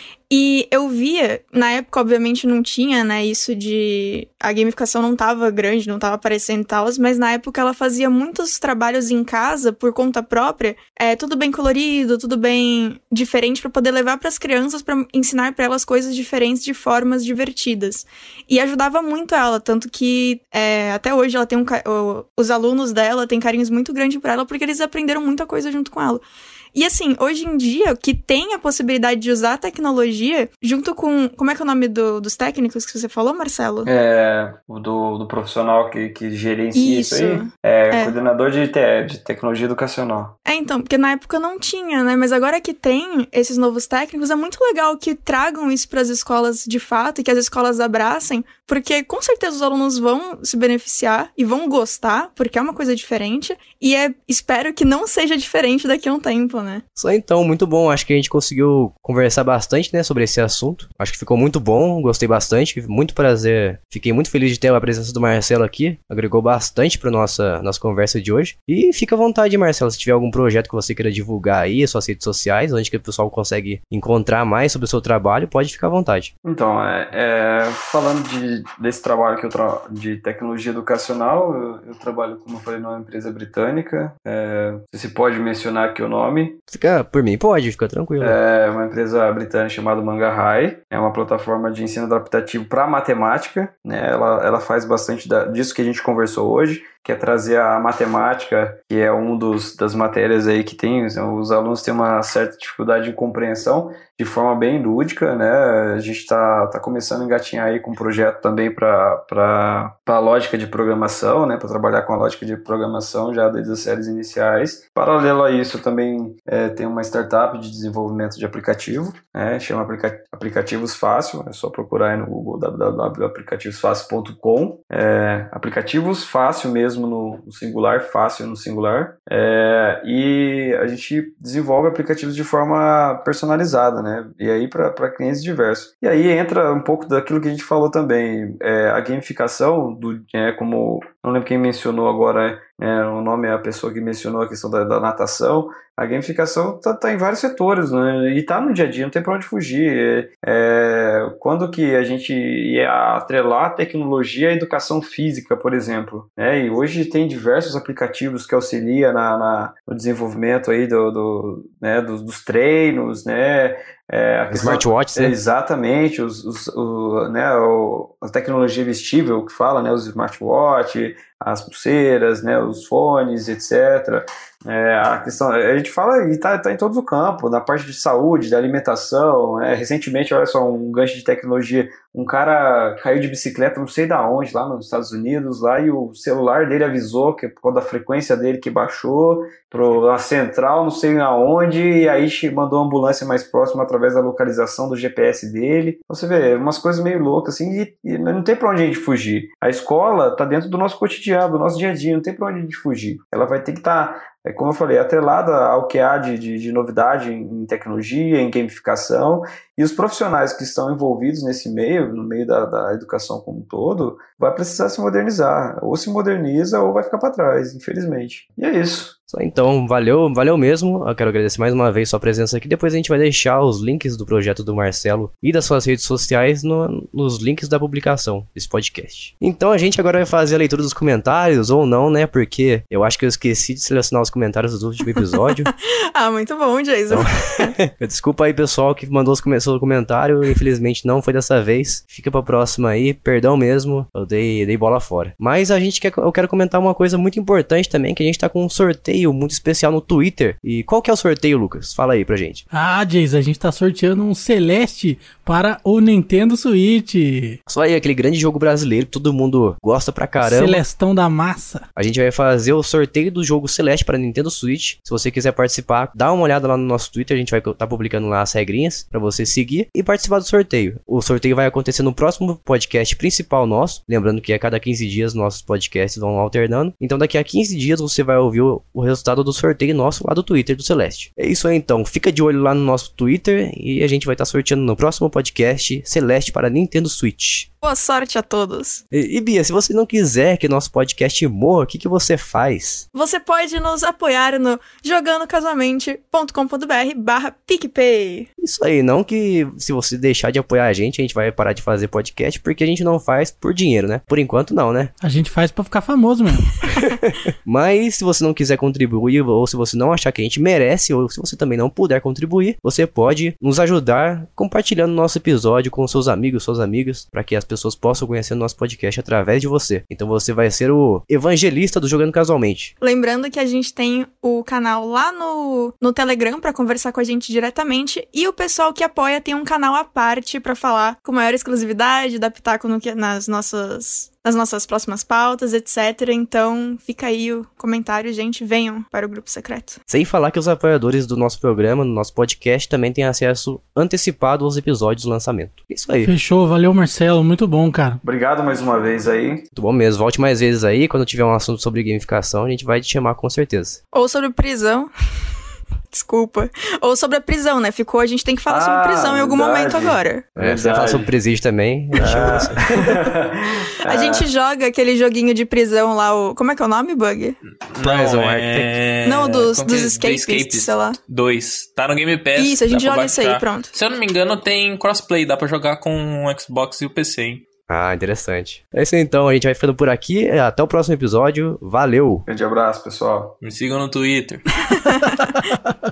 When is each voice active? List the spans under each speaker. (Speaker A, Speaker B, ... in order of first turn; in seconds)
Speaker A: 0.3-26.2, 26.7-33.9, 36.7-38.1, 40.5-56.8, 236.1-237.7, 287.8-289.0, 293.1-298.5, 323.0-340.0, 354.1-355.1, 356.1-360.4, 364.0-367.6, 369.2-371.2, 372.6-373.9, 384.9-385.4
Speaker B: 33.9-40.3, 76.4-86.6, 88.2-219.2, 348.2-349.6, 358.7-361.3, 362.2-364.5, 382.4-383.6
Speaker C: 57.0-76.3, 86.7-88.4, 164.5-165.4, 219.3-235.7, 237.1-252.6, 257.7-260.8, 261.9-287.7, 289.1-293.0, 298.6-305.1, 306.9-322.9, 340.1-346.3, 349.7-354.0, 360.6-363.1, 368.0-368.9, 377.9-382.4
Speaker D: 252.7-257.6, 260.4-261.9, 305.2-306.7, 346.2-348.2, 385.2-385.7
Speaker E: 367.9-377.6, 383.6-384.6